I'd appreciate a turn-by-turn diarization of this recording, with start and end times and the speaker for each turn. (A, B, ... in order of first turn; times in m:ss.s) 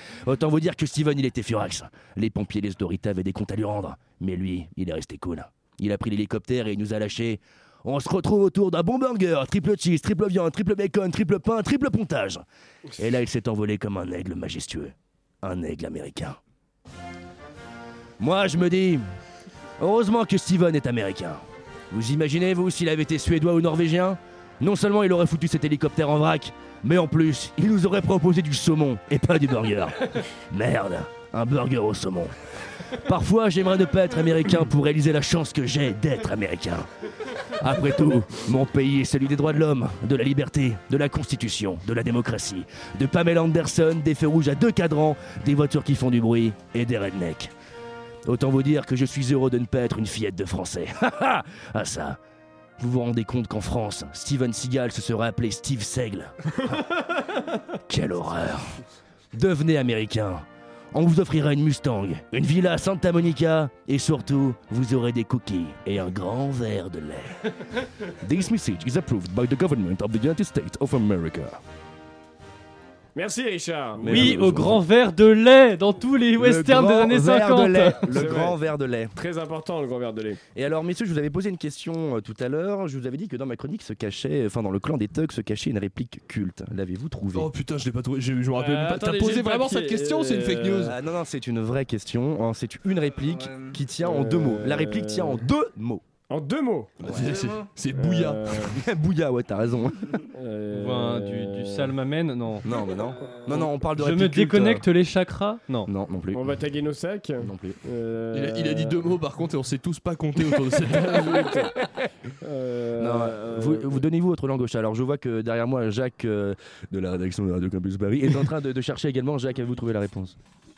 0:00.2-0:12.4 A
0:13.0-0:16.4 A
0:18.2-0:19.0 A
0:19.8-0:32.3 A
0:32.9-0:36.9 A
0:37.4-0:47.5 A
0:48.2-0:52.2 A
0:52.8-0:56.3 A
0:57.8-0:58.8 A
0:59.3-1:07.4 A
1:08.1-1:11.6 A
1:13.2-1:14.3 B
1:14.0-1:14.8 A
1:14.0-1:18.0 C
1:16.4-1:19.1 A
1:18.0-1:18.6 B
1:19.1-1:20.4 B
1:20.5-1:27.5 A
1:27.3-1:31.0 D
1:28.6-1:31.0 B
1:30.8-1:36.0 A
1:34.0-1:35.4 B
1:36.3-1:36.9 B
1:37.0-1:38.5 D
1:37.0-1:37.5 A
1:37.9-1:38.7 B
1:38.7-1:40.3 A
1:40.3-1:41.9 B
1:40.7-1:42.6 C
1:42.6-1:44.9 A
1:43.9-1:45.9 C
1:45.8-1:46.5 A
1:46.3-1:49.0 B
1:47.4-1:47.8 A
1:48.3-1:51.6 D
1:50.8-1:54.0 B
1:53.0-2:00.4 A